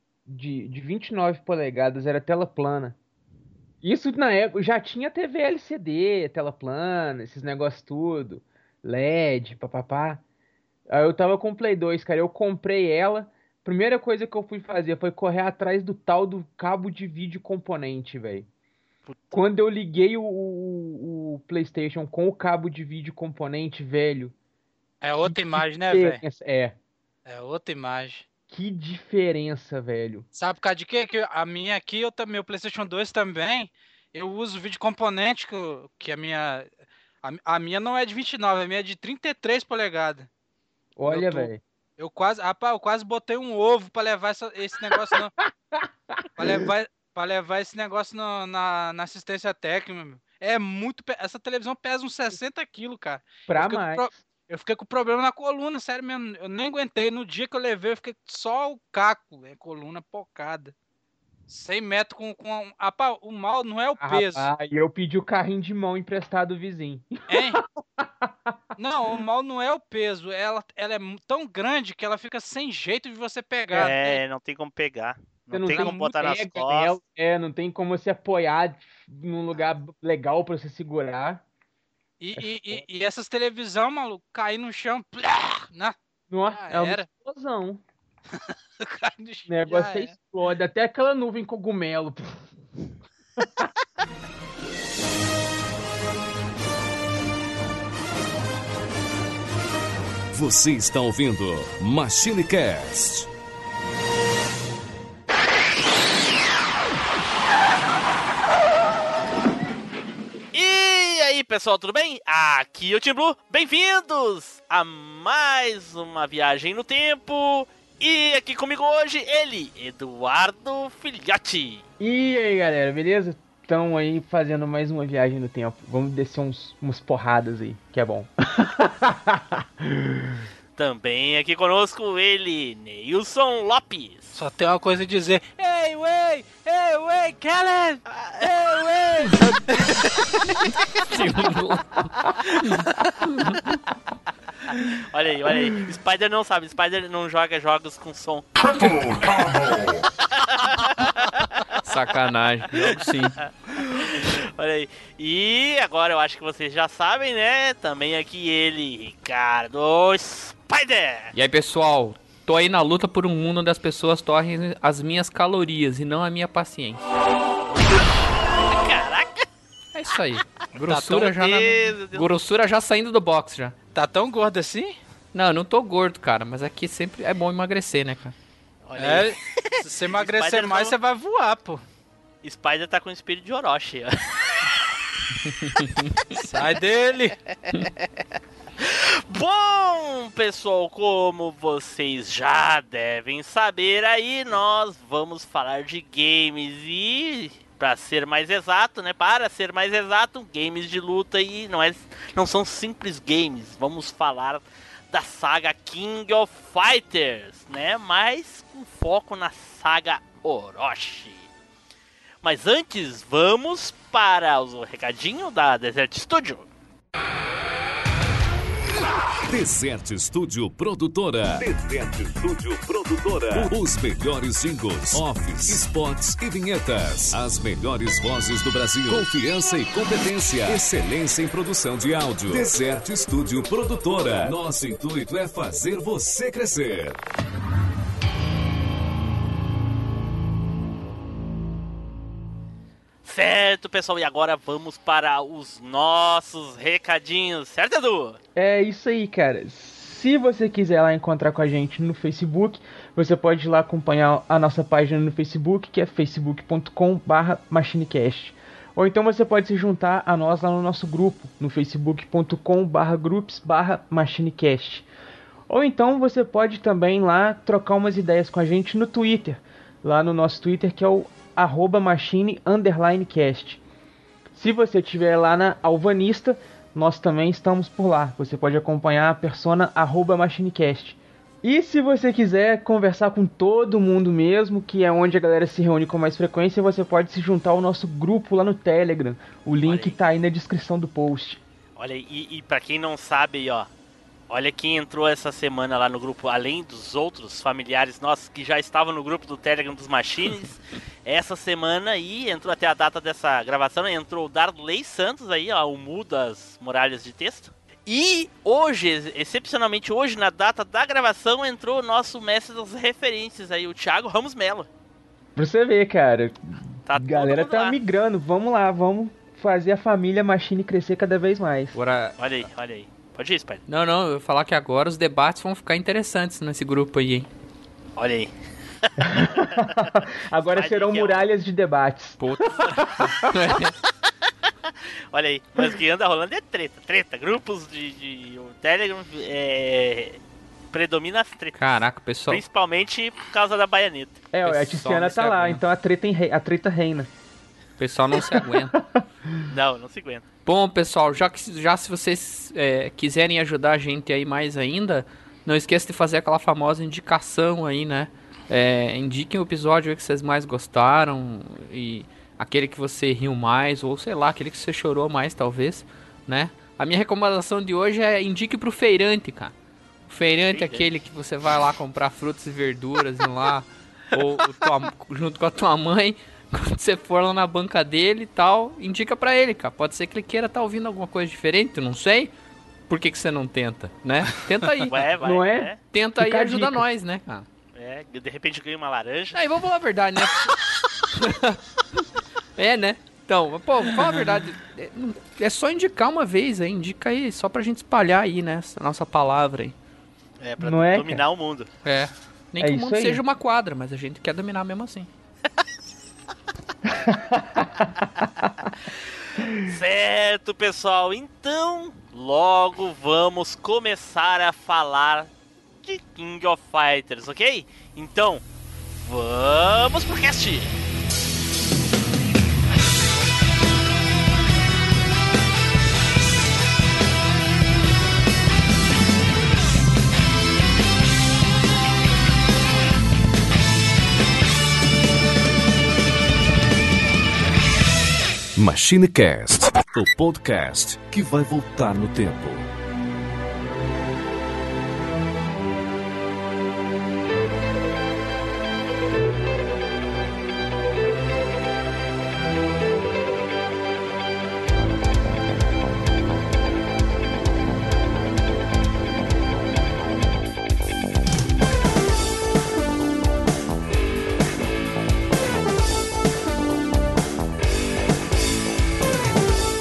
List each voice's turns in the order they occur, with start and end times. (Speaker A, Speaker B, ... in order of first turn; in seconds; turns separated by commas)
Speaker A: 0.2-3.0, Speaker A: 3.8-10.2, Speaker A: 10.9-18.5, Speaker B: 19.1-19.4, Speaker A: 19.3-24.3, Speaker C: 25.0-26.2, Speaker A: 25.2-26.8, Speaker C: 27.2-28.2, Speaker A: 28.5-30.2, Speaker C: 30.3-36.7, Speaker C: 37.2-40.3, Speaker A: 41.0-41.6, Speaker C: 41.0-45.3, Speaker A: 44.9-46.6, Speaker C: 46.4-60.7, Speaker A: 53.5-54.1, Speaker C: 61.5-64.5, Speaker A: 64.0-68.6, Speaker C: 67.3-67.6, Speaker C: 68.8-74.2, Speaker B: 73.8-77.0, Speaker A: 75.5-81.4, Speaker C: 75.7-75.9, Speaker C: 82.2-85.9, Speaker A: 82.4-82.8, Speaker A: 86.3-87.8, Speaker C: 86.5-87.1, Speaker C: 88.3-90.1, Speaker A: 89.5-92.5, Speaker A: 93.4-93.7, Speaker D: 100.3-103.3, Speaker B: 110.5-121.8, Speaker A: 122.0-130.4, Speaker B: 130.8-134.4, Speaker C: 134.3-140.1, Speaker B: 138.2-139.2, Speaker E: 141.1-143.6, Speaker B: 145.1-149.1, Speaker B: 150.3-151.4, Speaker E: 151.8-153.4, Speaker B: 152.7-153.1, Speaker B: 153.8-161.3, Speaker E: 161.3-167.0, Speaker B: 167.7-169.4, Speaker E: 169.9-173.7, Speaker C: 170.9-171.3, Speaker B: 171.3-172.3, Speaker C: 173.9-175.0, Speaker E: 175.3-178.3, Speaker B: 178.9-180.9, Speaker C: 179.0-181.8, Speaker B: 182.4-184.8, Speaker C: 186.3-187.3, Speaker B: 188.8-211.5, Speaker B: 212.4-216.6, Speaker D: 219.4-237.2, Speaker B: 243.2-248.4, Speaker A: 248.6-265.1, Speaker A: 265.7-273.8, Speaker A: 274.5-291.6, Speaker B: 289.8-290.2, Speaker B: 292.0-293.9, Speaker B: 294.5-314.9, Speaker A: 315.6-322.0, Speaker B: 317.1-318.0, Speaker E: 321.9-322.4, Speaker B: 322.4-323.8, Speaker E: 323.9-327.5, Speaker B: 328.2-328.5, Speaker B: 329.1-330.1, Speaker A: 329.2-333.3, Speaker B: 330.7-331.5, Speaker E: 332.4-333.9, Speaker B: 335.3-340.4, Speaker B: 340.9-341.8, Speaker E: 341.7-342.6, Speaker B: 342.5-344.4, Speaker A: 344.5-347.3, Speaker E: 344.6-345.8, Speaker E: 348.0-349.0, Speaker B: 349.6-350.4, Speaker E: 350.6-369.7, Speaker E: 370.3-382.5, Speaker B: 370.7-371.1, Speaker E: 383.1-385.3, Speaker B: 385.1-386.0, Speaker A: 385.4-387.1, Speaker E: 386.0-387.6, Speaker B: 387.9-389.6, Speaker E: 389.5-390.8, Speaker E: 391.3-391.8, Speaker E: 392.8-399.9, Speaker B: 400.6-401.9, Speaker A: 400.8-401.4, Speaker E: 402.0-405.3, Speaker A: 402.8-403.4, Speaker A: 407.2-407.9, Speaker B: 409.7-415.5, Speaker B: 416.0-420.9, Speaker D: 438.8-442.8